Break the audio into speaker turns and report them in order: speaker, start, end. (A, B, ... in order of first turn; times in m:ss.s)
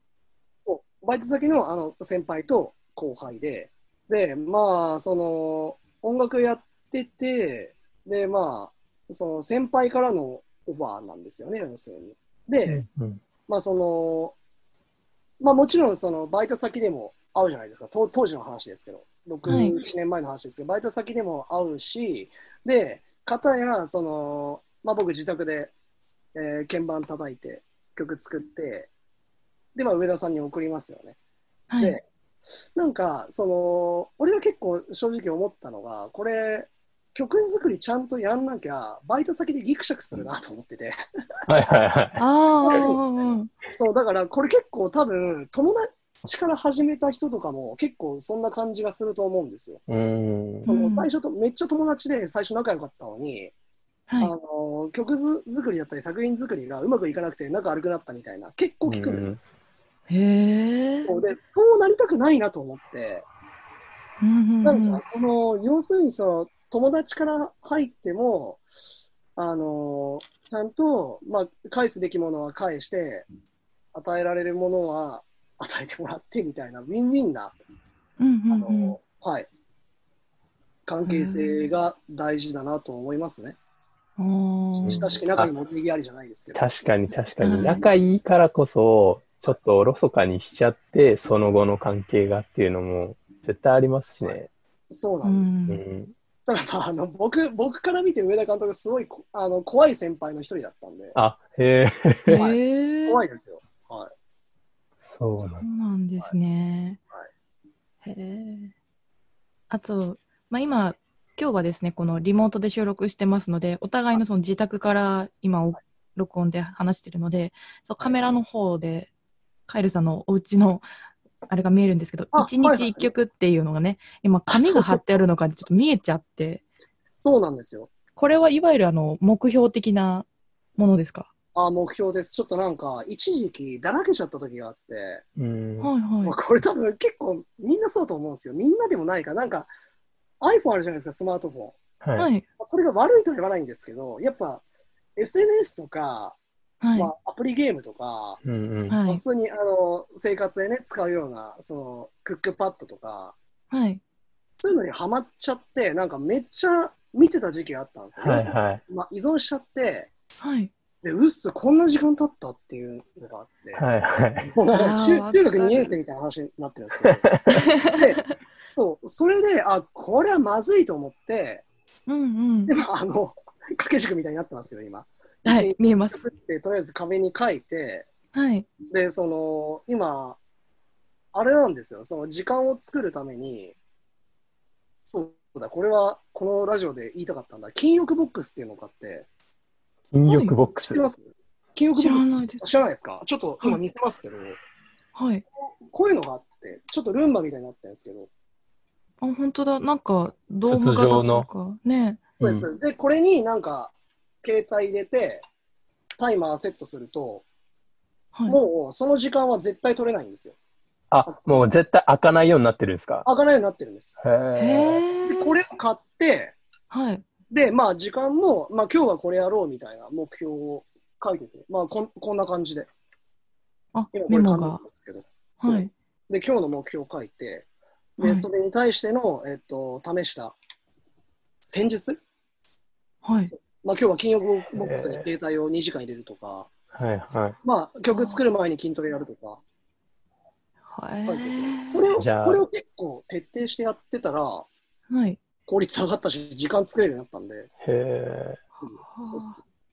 0:00.6-0:12.8 A
0:12.7-0:13.2 B
0:13.5-0:14.3 A
0:15.4-0:25.7 A
0:19.5-0:19.8 C
0:26.3-0:28.9 A
0:29.7-0:31.2 A
0:31.7-0:32.0 C
0:32.8-0:41.0 A
0:41.5-0:42.2 B
0:42.2-0:43.5 C
0:42.6-0:49.8 A
0:49.9-0:50.7 B
0:50.7-0:51.1 C
0:50.7-0:53.5 A
0:54.2-0:59.3 A
0:58.8-0:59.4 B
1:00.1-1:01.1 C
1:01.0-1:03.2 A
1:04.2-1:05.0 C
1:04.6-1:08.6 A
1:09.4-1:13.2 A
1:13.9-1:17.5 A
1:18.2-1:19.0 C
1:18.5-1:19.5 A
1:20.8-1:23.6 A
1:21.0-1:21.7 C
1:24.2-1:25.0 C
1:24.8-1:26.6 A
1:24.8-1:25.5 B
1:26.5-1:34.5 B
1:27.4-1:27.8 C
1:34.2-1:35.6 A
1:35.2-1:35.8 C
1:35.7-1:36.1 B
1:36.5-1:41.2 A
1:41.1-1:42.4 B
1:42.3-1:43.2 C
1:42.3-1:44.1 A
1:45.0-1:45.6 B
1:45.5-1:47.0 C
1:48.0-1:48.7 C
1:49.7-1:59.1 C
1:58.0-1:58.4 A
1:59.7-2:00.8 C
2:01.5-2:06.6 C
2:02.3-2:03.1 A
2:04.5-2:05.0 A
2:07.2-2:07.9 A
2:08.2-2:11.3 C
2:11.5-2:15.2 A
2:15.4-2:15.9 B
2:15.8-2:16.4 C
2:16.2-2:19.7 A
2:20.4-2:21.8 A
2:22.0-2:22.3 B
2:22.2-2:22.4 C
2:22.6-2:24.6 A
2:25.2-2:26.4 A
2:26.8-2:27.1 C
2:27.0-2:28.4 A
2:28.4-2:29.0 B
2:28.9-2:29.2 C
2:29.0-2:33.4 A
2:33.7-2:34.0 C
2:34.6-2:40.1 A
2:38.2-2:38.8 B
2:40.4-2:40.7 C
2:41.0-2:43.8 A
2:43.7-2:44.5 B
2:44.4-2:48.2 A
2:44.7-2:45.9 C
2:47.1-2:47.4 B
2:47.5-2:48.3 C
2:48.7-2:51.6 A
2:52.1-2:52.7 C
2:52.7-2:58.1 A
2:55.4-2:56.2 C
2:58.3-2:58.7 C
2:58.9-3:00.4 A
3:01.3-3:03.7 A
3:05.0-3:09.3 A
3:10.1-3:11.0 B
3:10.2-3:10.5 C
3:10.8-3:14.6 A
3:12.0-3:12.7 C
3:15.1-3:15.4 C
3:15.9-3:18.3 A
3:19.2-3:22.2 C
3:20.7-3:21.5 B
3:22.4-3:25.4 A
3:22.4-3:22.7 B
3:26.2-3:27.4 A
3:28.3-3:28.6 C
3:28.5-3:30.5 A
3:31.1-3:33.2 B
3:31.2-3:31.6 A
3:33.2-3:34.2 A
3:34.2-3:35.0 B
3:34.6-3:35.6 C
3:35.2-3:36.6 A
3:36.9-3:37.2 C
3:37.5-3:42.9 A
3:43.9-3:44.8 C
3:44.1-3:47.7 A
3:45.6-3:45.9 C
3:48.2-3:50.6 A
3:48.2-3:48.5 C
3:51.6-3:52.2 A
3:53.2-3:53.5 C
3:53.5-3:56.7 A
3:54.7-3:55.3 B
3:56.9-3:57.6 B
3:57.6-3:59.6 A
3:58.1-3:58.4 C
4:00.9-4:02.1 C
4:01.3-4:04.7 A
4:02.2-4:02.6 B
4:05.1-4:05.4 C
4:05.7-4:07.7 A
4:07.8-4:08.6 B
4:08.8-4:09.6 C
4:08.8-4:09.6 A